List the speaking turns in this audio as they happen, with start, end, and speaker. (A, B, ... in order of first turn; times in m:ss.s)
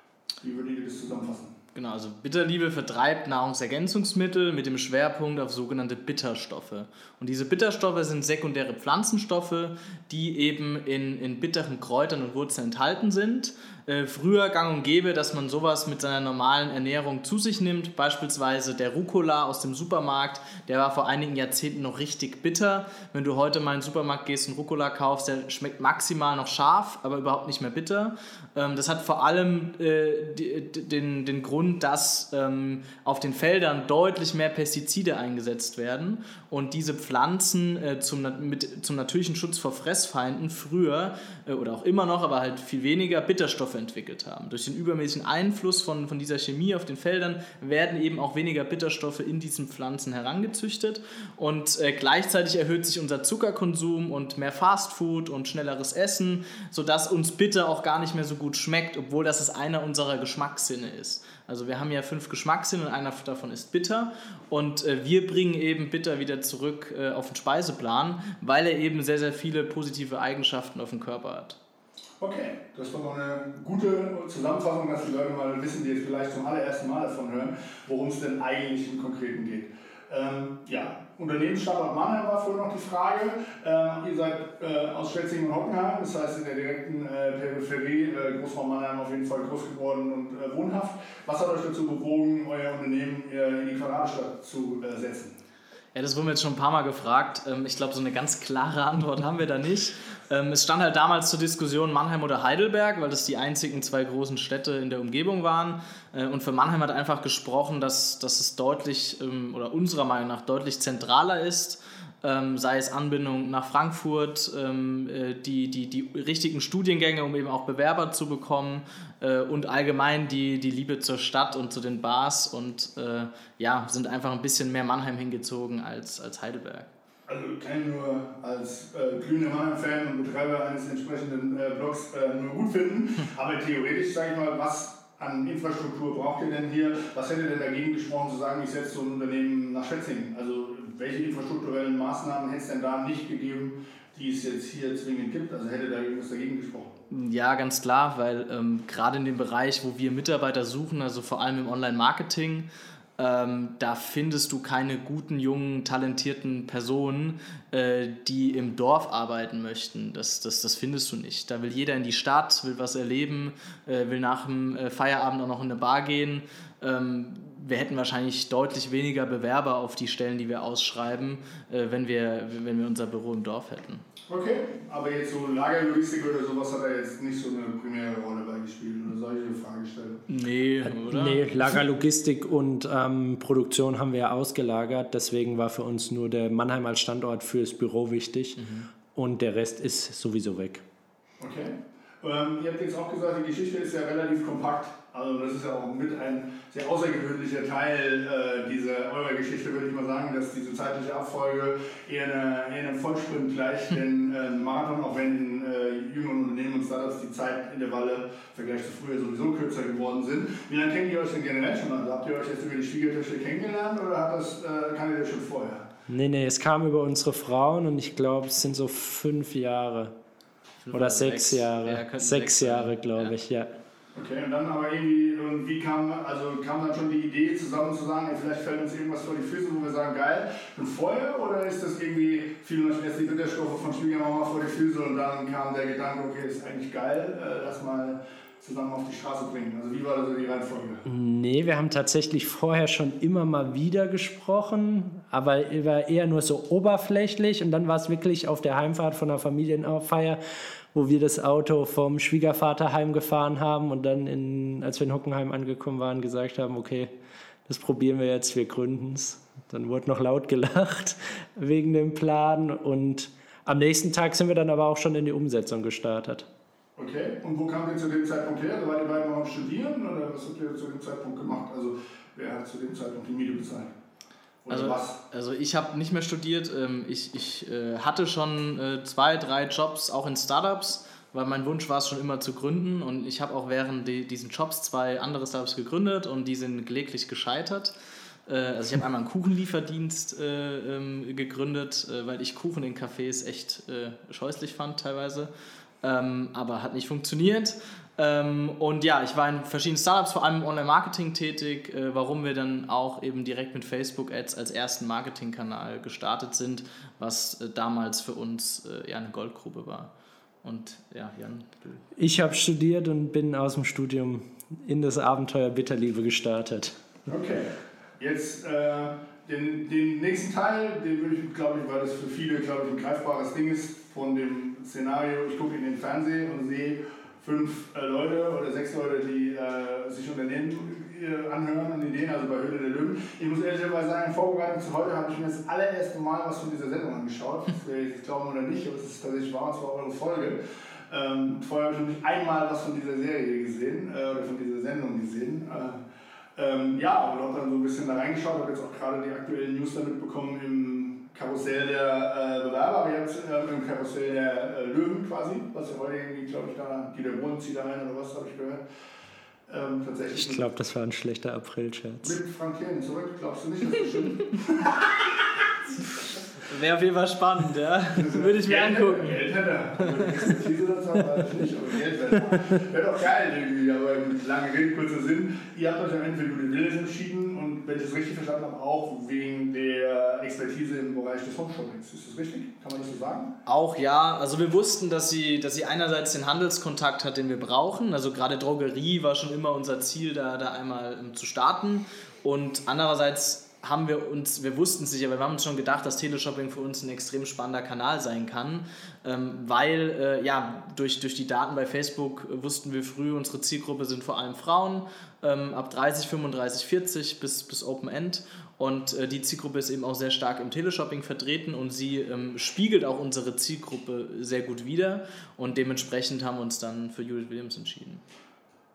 0:00.4-0:01.5 A
0:01.7-1:11.6 B
1:12.2-1:35.4 A
1:35.9-2:06.9 B
2:07.3-2:26.9 A
2:27.1-2:54.0 B
2:54.3-3:00.2 A
3:00.3-3:01.8 B
3:00.8-3:10.8 C
3:08.6-3:08.9 B
3:11.4-3:35.8 A
3:36.1-3:40.1 C
3:40.8-3:43.3 B
3:40.9-3:43.7 C
3:44.1-4:01.0 A
4:01.0-4:10.4 C
4:10.9-4:17.1 C
4:17.6-4:26.5 C
4:27.0-4:33.9 A
4:34.6-4:35.2 A
4:34.7-4:47.9 B
4:48.5-4:55.5 B
4:56.0-5:10.1 B
5:10.6-5:12.0 B
5:12.2-5:17.0 C
5:17.3-5:46.0 A
5:46.6-5:58.8 A
5:59.7-6:00.6 A
6:00.3-6:02.4 C
6:02.2-6:05.1 A
6:06.7-6:09.4 B
6:08.1-6:23.5 A
6:10.2-6:10.5 B
6:23.6-6:58.2 B